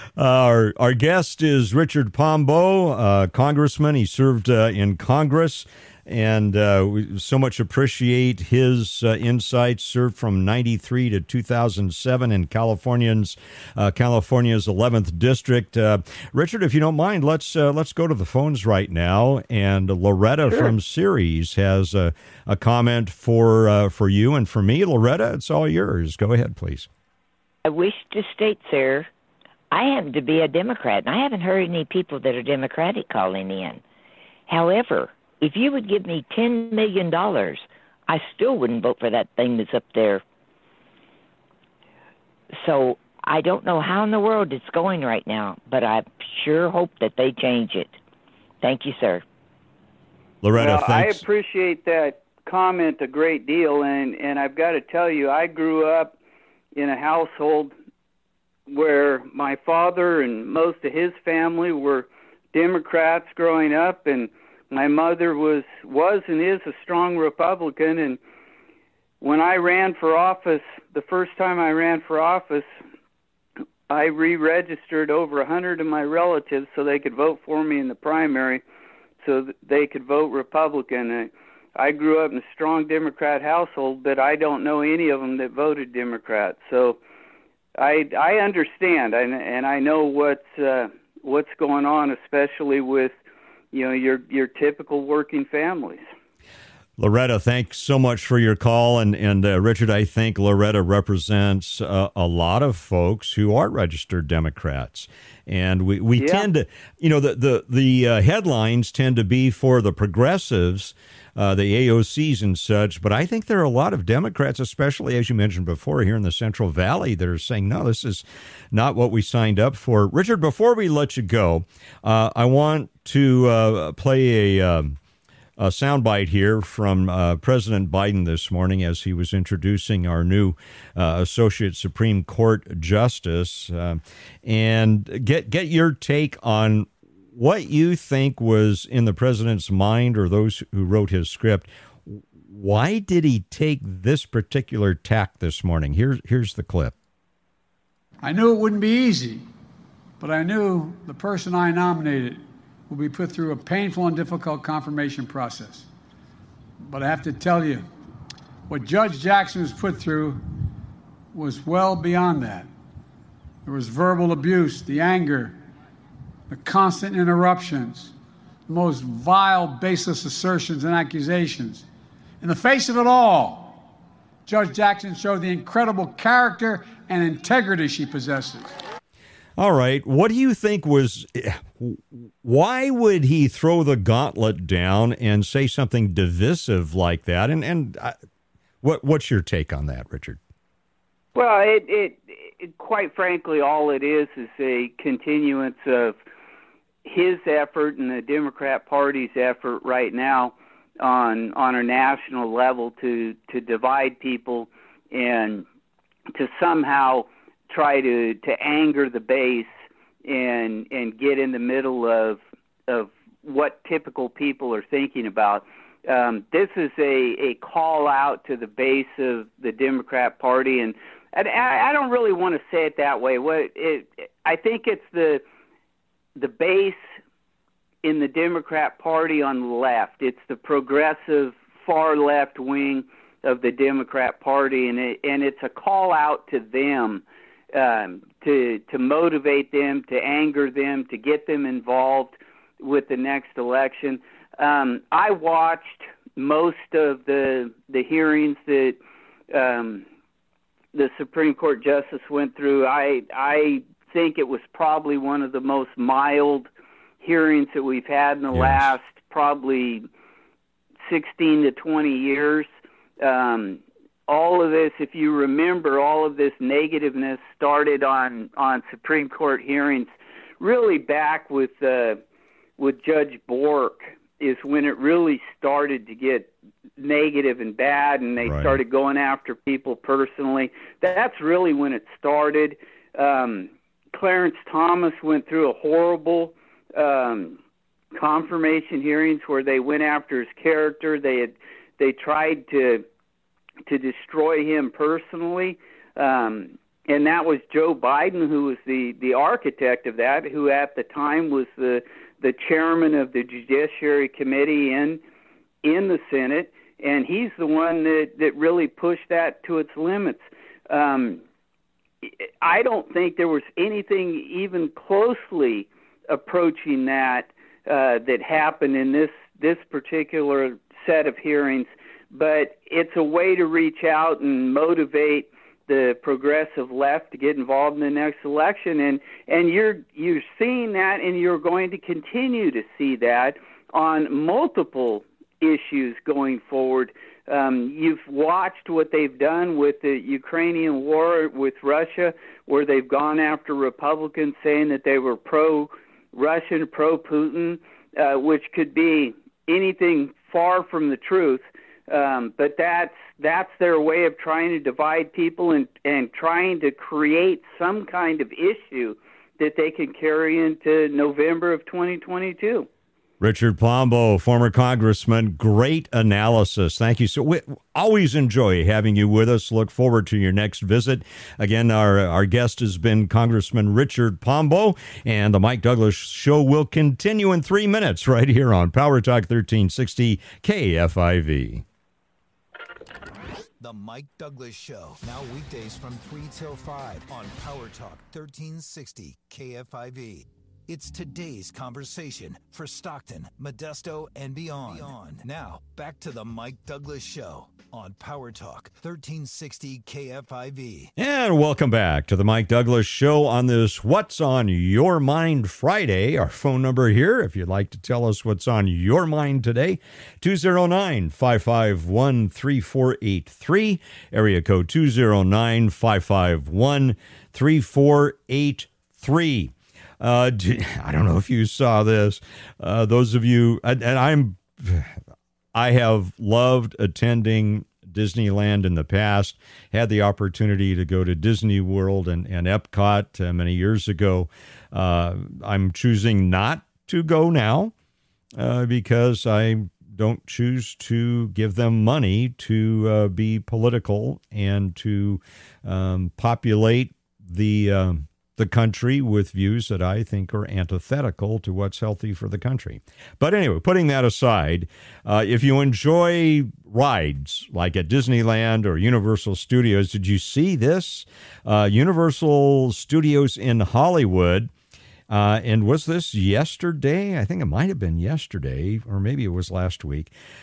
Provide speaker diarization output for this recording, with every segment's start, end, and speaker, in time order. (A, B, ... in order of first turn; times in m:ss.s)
0:00.2-0:26.9 A
0:27.6-0:29.1 B
0:29.7-0:33.8 B
0:34.5-0:40.2 B
0:42.6-0:48.0 B
0:48.6-0:49.2 B
0:50.4-0:51.2 A
0:50.6-0:56.1 C
0:56.7-0:57.7 C
0:58.7-1:08.2 C
1:09.2-1:12.7 C
1:13.9-1:18.6 C
1:19.2-1:27.0 C
1:27.8-1:33.1 C
1:33.7-1:36.0 C
1:37.0-2:05.0 A
1:46.2-1:46.5 C
2:05.6-2:26.9 A
2:28.2-2:29.4 D
2:30.2-2:35.9 D
2:36.8-2:37.8 D
2:38.7-2:40.4 D
2:41.3-2:42.7 D
2:43.6-2:45.6 D
2:46.5-2:48.1 D
2:48.7-2:51.9 D
2:52.4-2:53.8 D
2:54.5-2:58.7 D
2:59.6-3:08.2 A
3:08.8-3:10.4 A
3:11.4-3:16.2 C
3:17.0-3:25.6 C
3:26.3-3:29.7 C
3:30.2-3:45.4 C
3:46.4-3:47.1 C
3:48.0-4:09.0 C
4:09.5-4:10.0 C
4:10.9-4:16.7 C
4:17.2-4:20.1 C
4:18.5-4:18.9 A
4:21.0-4:22.7 C
4:23.2-4:32.2 C
4:32.8-4:47.6 C
4:38.4-4:38.8 A
4:48.2-4:53.1 C
4:53.9-5:05.2 C
5:05.8-5:11.4 C
5:12.6-6:02.9 C
6:03.4-6:21.8 A
6:23.8-6:41.1 E
6:41.2-7:05.2 A
7:05.8-7:17.9 A
7:18.6-7:44.7 A
7:45.3-7:50.3 A